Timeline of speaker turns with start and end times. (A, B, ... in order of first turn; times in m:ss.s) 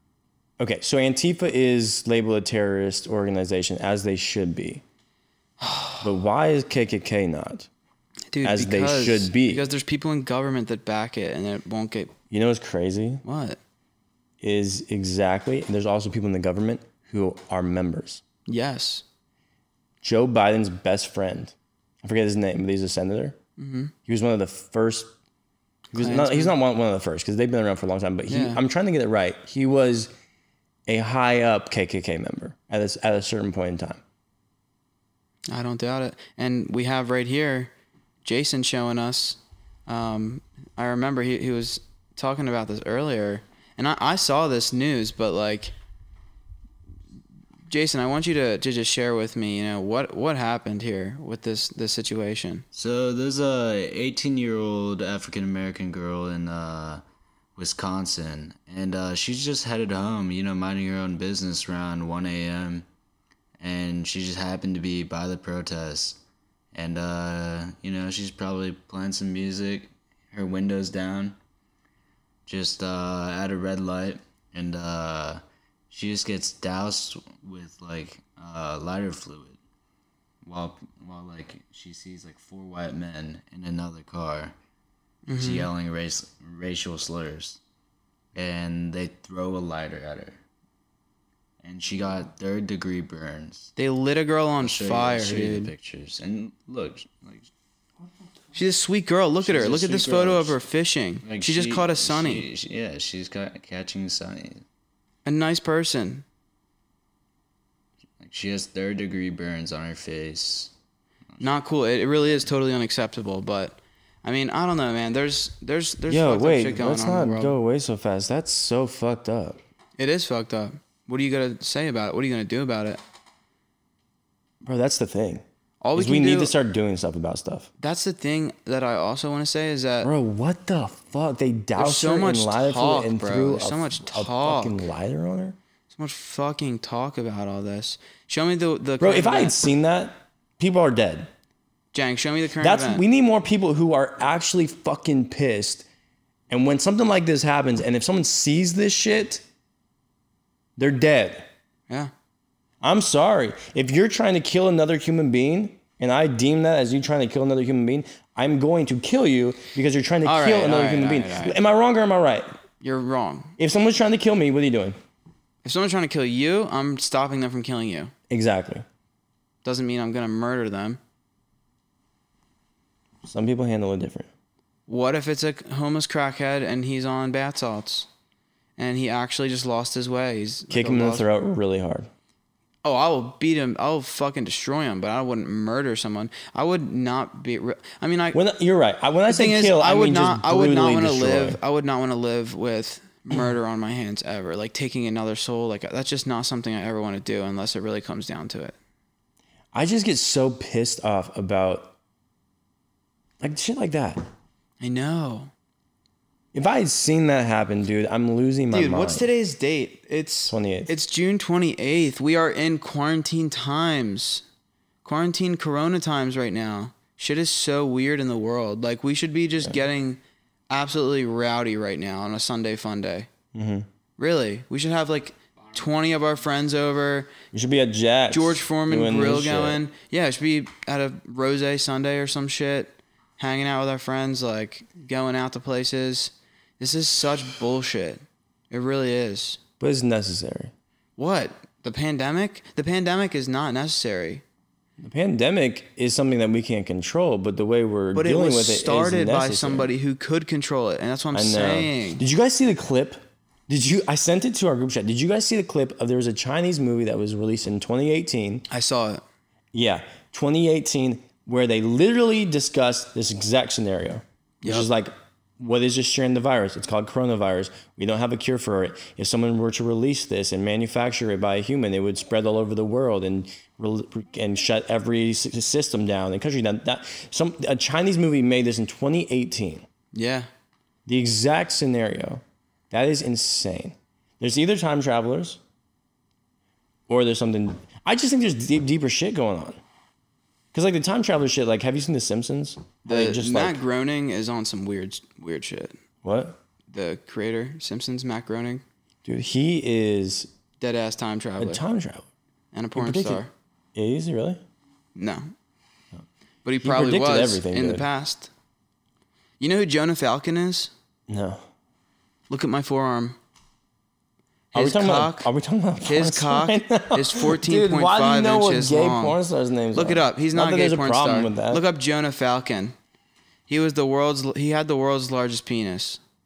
0:00.6-0:04.8 A
0:05.6-0:06.0 B
0:06.0-0:07.7 A
0:08.3-0:12.1 B
0:08.4-0:09.7 A
0:12.3-0:13.2 A
0:13.2-0:13.6 B
0:14.4-0:18.2 A
0:18.5-0:19.0 B
0:20.0-0:23.4 A
0:23.6-0:23.9 B
0:24.0-0:25.1 A
0:25.9-0:30.1 A
0:25.9-0:26.5 B
0:28.3-0:28.6 B
0:30.9-0:34.0 A
0:35.5-0:37.7 B
0:38.2-0:45.7 B
0:47.7-0:52.6 B
0:52.7-0:57.0 C
0:57.6-1:02.8 C
1:03.6-1:06.2 C
1:06.7-1:11.4 C
1:12.5-1:19.6 C
1:20.4-1:24.5 C
1:25.3-1:25.7 B
1:25.3-1:27.6 C
1:28.3-1:30.4 C
1:31.6-1:33.7 C
1:33.8-1:35.7 B
1:34.6-1:37.5 C
1:38.5-1:42.4 B
1:39.4-1:40.6 C
1:41.2-1:44.6 C
1:45.2-1:46.2 B
1:48.2-1:50.7 C
1:51.4-1:57.6 B
1:56.1-1:59.6 A
2:00.0-2:03.0 B
2:04.6-2:05.4 A
2:05.8-2:06.5 B
2:05.9-2:07.7 A
2:07.8-2:10.1 B
2:10.0-2:15.6 A
2:11.8-2:14.8 B
2:15.9-2:19.6 B
2:19.0-2:21.3 A
2:21.9-2:23.0 B
2:22.6-2:25.8 A
2:26.5-2:29.4 A
2:30.8-2:31.5 A
2:32.8-2:42.5 A
2:40.2-2:41.6 B
2:42.8-2:43.5 B
2:43.6-2:45.0 A
2:45.6-2:48.1 B
2:48.3-2:48.8 A
2:49.6-2:51.0 B
2:53.2-2:54.3 A
2:54.9-2:58.1 B
2:58.8-3:01.2 B
3:00.7-3:02.1 A
3:02.8-3:08.4 B
3:08.3-3:11.6 A
3:09.3-3:18.8 B
3:19.7-3:21.9 A
3:23.4-3:24.2 A
3:24.8-3:25.5 B
3:26.5-3:29.3 A
3:28.7-3:34.4 B
3:30.5-3:30.9 A
3:35.0-3:40.2 B
3:40.7-3:43.3 B
3:43.5-3:43.8 A
3:44.2-3:47.3 B
3:47.5-3:49.8 A
3:48.3-3:59.6 B
3:59.8-4:00.7 A
4:01.2-4:04.4 B
4:05.0-4:09.9 A
4:08.1-4:12.2 B
4:11.3-4:18.6 A
4:18.7-4:19.2 B
4:19.7-4:39.8 A
4:24.6-4:24.9 B
4:40.1-4:40.5 B
4:41.0-4:45.6 A
4:47.1-4:49.8 A
4:50.7-4:53.8 A
4:53.1-4:56.0 B
4:56.2-4:56.6 A
4:56.9-4:58.8 B
4:59.2-5:00.5 A
5:00.8-5:01.8 B
5:01.6-5:02.3 A
5:02.7-5:03.5 B
5:03.0-5:03.4 A
5:03.9-5:04.6 A
5:05.2-5:05.5 B
5:06.6-5:08.5 B
5:06.8-5:08.0 A
5:09.6-5:10.9 B
5:11.3-5:11.6 A
5:12.5-5:13.4 B
5:14.7-5:15.5 B
5:14.7-5:21.8 A
5:16.0-5:19.4 B
5:19.9-5:22.9 B
5:23.7-5:26.2 B